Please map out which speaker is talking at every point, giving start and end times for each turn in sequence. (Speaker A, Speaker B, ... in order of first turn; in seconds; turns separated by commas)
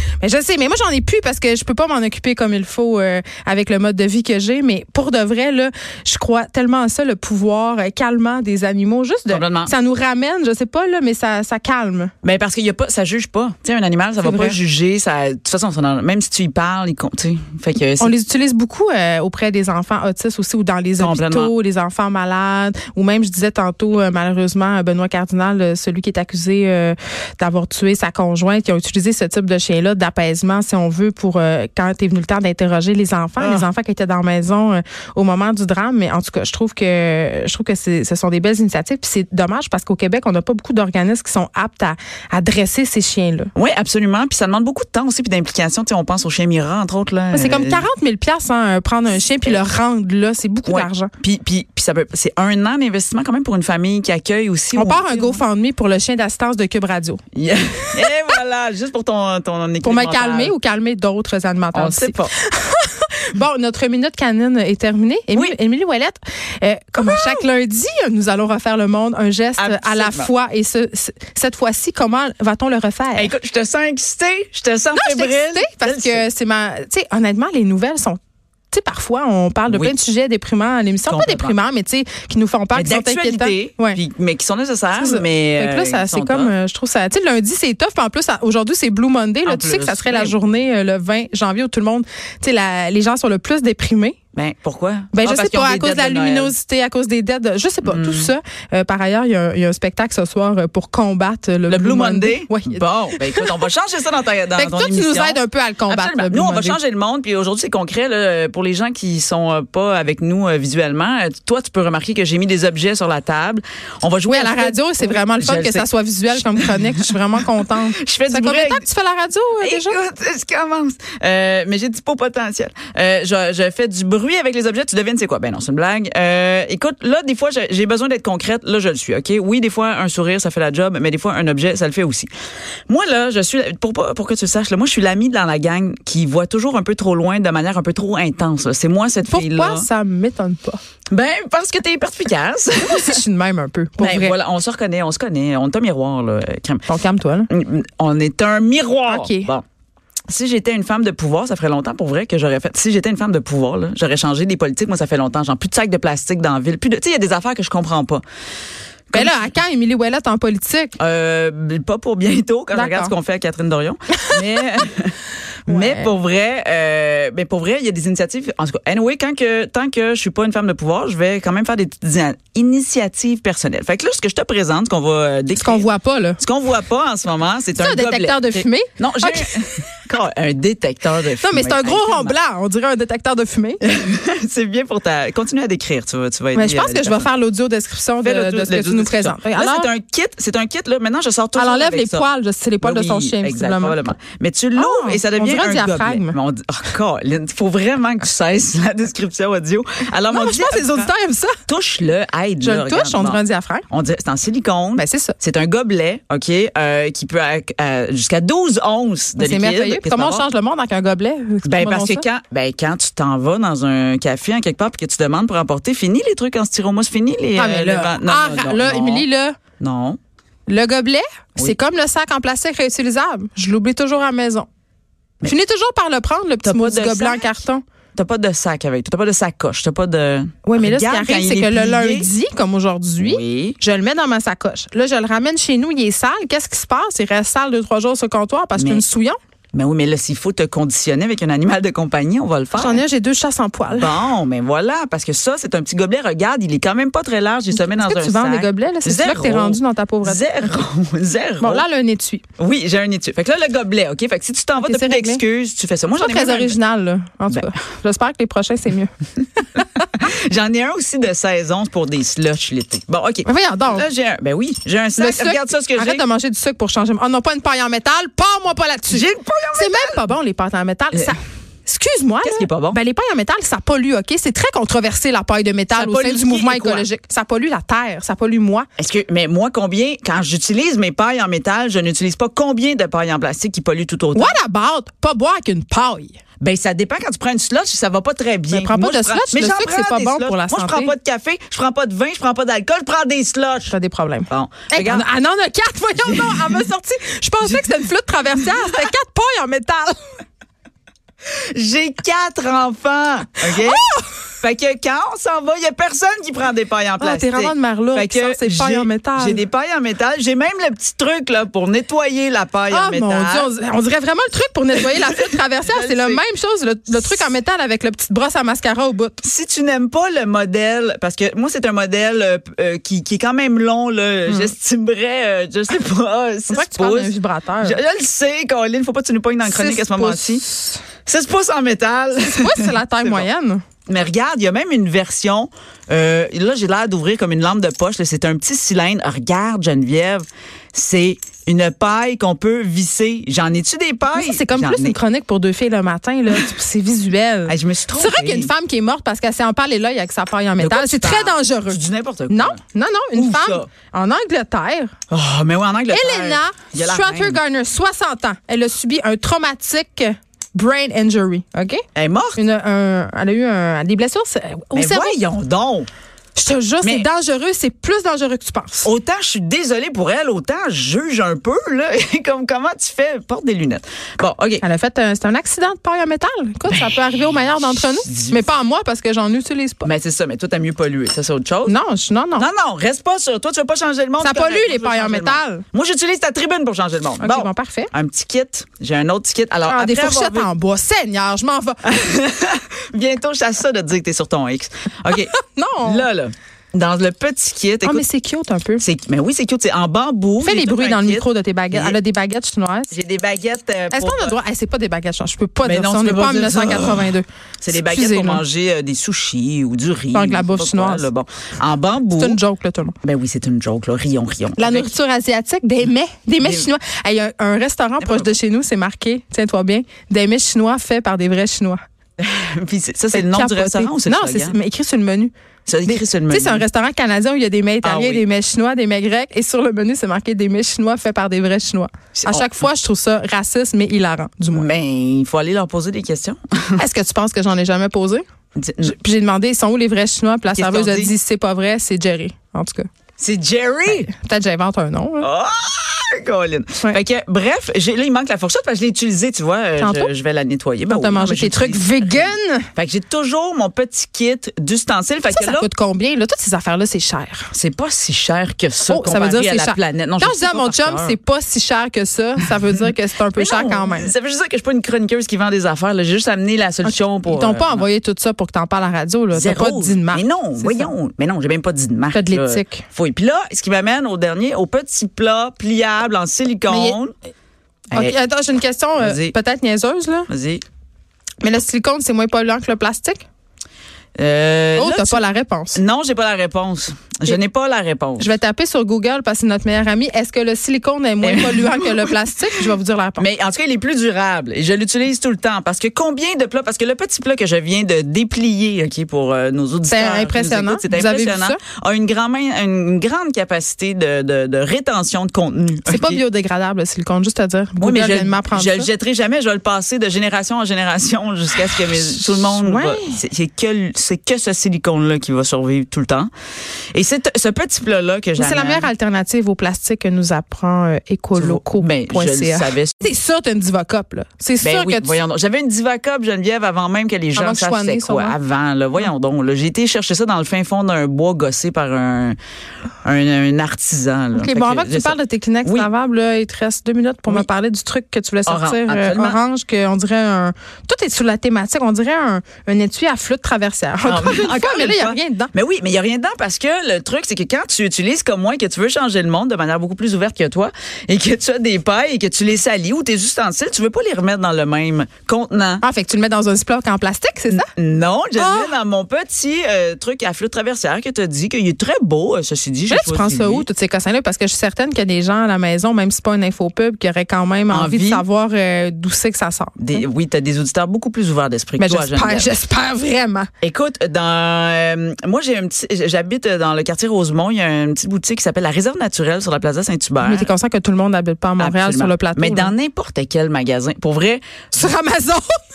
Speaker A: 0.2-12.1, Speaker B: 9.3-9.7, Speaker B: 12.2-18.1, Speaker A: 14.2-14.6, Speaker A: 18.0-43.5, Speaker B: 21.0-21.5, Speaker B: 33.4-33.7, Speaker B: 43.5-47.9, Speaker A: 47.3-51.1, Speaker B: 50.7-55.4, Speaker A: 54.8-57.2, Speaker B: 57.4-60.6, Speaker A: 59.8-73.3, Speaker B: 61.7-62.3, Speaker B: 67.0-67.4, Speaker B: 69.6-70.3, Speaker B: 73.2-76.2, Speaker A: 74.9-78.2, Speaker A: 78.7-84.0, Speaker B: 79.7-80.0, Speaker B: 81.1-81.6, Speaker B: 82.7-86.5, Speaker A: 84.9-94.2, Speaker B: 89.4-90.4, Speaker B: 94.3-96.5, Speaker A: 95.1-103.5, Speaker B: 97.8-98.3, Speaker B: 101.7-117.5, Speaker A: 104.5-106.8, Speaker A: 114.3-120.0, Speaker B: 118.0-118.9, Speaker B: 119.6-132.3, Speaker B: 132.9-139.9, Speaker A: 139.2-140.8, Speaker B: 141.1-143.2, Speaker A: 142.8-144.4, Speaker B: 144.0-146.8, Speaker A: 146.9-147.5, Speaker B: 147.5-149.6, Speaker A: 149.1-149.5, Speaker B: 150.3-158.2, Speaker B: 159.1-159.5, Speaker A: 159.1-161.0, Speaker B: 161.0-182.4, Speaker A: 162.7-163.1, Speaker A: 165.7-166.1, Speaker A: 175.6-176.4, Speaker A: 177.8-179.9, Speaker A: 181.4-183.8, Speaker B: 183.8-187.3, Speaker A: 186.5-189.9, Speaker B: 188.2-192.3, Speaker A: 191.6-194.1, Speaker B: 192.8-201.1, Speaker A: 194.8-196.4, Speaker A: 200.3-201.6, Speaker B: 201.7-210.5, Speaker A: 202.6-203.8, Speaker A: 205.0-205.4, Speaker A: 209.4-212.3, Speaker B: 211.7-219.3, Speaker A: 217.6-219.6, Speaker B: 219.8-220.2, Speaker A: 220.7-224.7, Speaker A: 225.4-227.8, Speaker B: 226.6-227.5, Speaker B: 228.2-232.3, Speaker A: 230.6-239.4, Speaker B: 233.2-233.8, Speaker B: 238.8-239.1, Speaker B: 239.7-243.0, Speaker A: 242.8-244.2, Speaker B: 243.9-251.9, Speaker A: 247.7-250.8, Speaker A: 251.6-252.4, Speaker B: 252.6-256.8, Speaker A: 254.8-255.4, Speaker A: 256.2-259.1, Speaker A: 259.6-260.0, Speaker B: 260.1-266.2, Speaker A: 263.4-264.1, Speaker A: 265.2-278.9, Speaker B: 269.1-270.3, Speaker B: 272.4-273.0, Speaker B: 275.9-277.1, Speaker B: 279.0-284.6, Speaker A: 284.4-286.4, Speaker B: 286.6-293.9, Speaker A: 288.7-291.1, Speaker A: 293.9-300.3, Speaker B: 294.5-295.3, Speaker B: 296.2-296.9, Speaker B: 297.6-297.9, Speaker B: 298.6-299.1, Speaker B: 301.7-313.7, Speaker A: 303.7-304.2, Speaker A: 307.2-309.6, Speaker A: 312.9-319.4, Speaker B: 315.0-316.4, Speaker B: 317.1-317.4, Speaker B: 319.4-330.6, Speaker A: 324.5-324.7, Speaker A: 326.7-328.0, Speaker A: 329.6-331.0, Speaker B: 331.3-333.5, Speaker A: 332.5-333.8, Speaker B: 334.1-345.2, Speaker A: 344.3-355.1, Speaker B: 347.7-348.7, Speaker B: 350.8-352.8, Speaker B: 353.3-353.9, Speaker B: 355.3-357.6, Speaker A: 356.1-362.0, Speaker B: 362.1-362.6, Speaker A: 362.6-365.4, Speaker B: 364.9-366.1, Speaker A: 366.6-369.1, Speaker B: 367.0-367.3, Speaker B: 369.0-374.8, Speaker A: 374.8-380.1, Speaker B: 376.9-378.6, Speaker B: 380.0-381.9, Speaker A: 381.9-382.7, Speaker B: 382.6-390.7, Speaker A: 384.4-385.9, Speaker A: 387.4-388.1, Speaker A: 389.9-392.0, Speaker B: 392.0-398.3, Speaker A: 395.5-396.3, Speaker A: 398.0-399.1, Speaker B: 399.0-402.2, Speaker A: 400.6-403.1, Speaker B: 403.1-404.6, Speaker A: 404.1-408.6, Speaker B: 405.8-412.6, Speaker A: 410.3-411.3, Speaker A: 412.3-413.2, Speaker B: 413.2-415.1, Speaker A: 414.8-422.0, Speaker B: 416.6-416.9, Speaker B: 418.2-418.6, Speaker B: 422.4-424.8, Speaker A: 423.3-425.5, Speaker B: 425.9-426.9, Speaker A: 426.1-434.9, Speaker B: 428.0-428.4, Speaker B: 432.4-432.7, Speaker B: 434.7-437.0, Speaker A: 437.0-438.4, Speaker B: 438.8-439.2, Speaker A: 439.0-443.1, Speaker B: 440.7-441.3, Speaker B: 443.4-444.3, Speaker A: 444.1-445.5, Speaker B: 445.4-455.9, Speaker A: 450.0-450.3, Speaker A: 451.1-452.9, Speaker A: 455.5-457.7, Speaker B: 457.7-461.4, Speaker A: 459.1-464.3, Speaker B: 463.5-468.1, Speaker A: 467.0-471.1, Speaker B: 469.5-477.3, Speaker A: 472.3-473.1, Speaker A: 476.9-477.2, Speaker A: 478.1-480.5, Speaker B: 479.2-479.5, Speaker B: 480.5-480.8, Speaker A: 481.6-483.4, Speaker B: 484.4-488.5, Speaker A: 485.0-486.0, Speaker A: 488.4-493.5, Speaker B: 491.4-506.4, Speaker A: 500.1-501.8, Speaker A: 506.1-509.1, Speaker B: 508.0-516.5, Speaker A: 512.6-513.4, Speaker B: 517.1-519.1, Speaker A: 518.6-525.4, Speaker B: 521.6-523.3, Speaker B: 524.8-532.6, Speaker A: 527.5-528.6, Speaker B: 533.2-536.1, Speaker A: 534.5-545.7, Speaker B: 538.7-539.6, Speaker B: 544.2-556.0, Speaker A: 556.0-557.9, Speaker B: 557.7-563.9, Speaker A: 558.6-558.9, Speaker A: 563.1-570.0, Speaker B: 567.9-568.5, Speaker B: 570.0-572.7, Speaker A: 572.0-573.7, Speaker B: 573.8-580.7, Speaker A: 580.4-582.9, Speaker B: 581.8-584.6, Speaker A: 584.9-585.7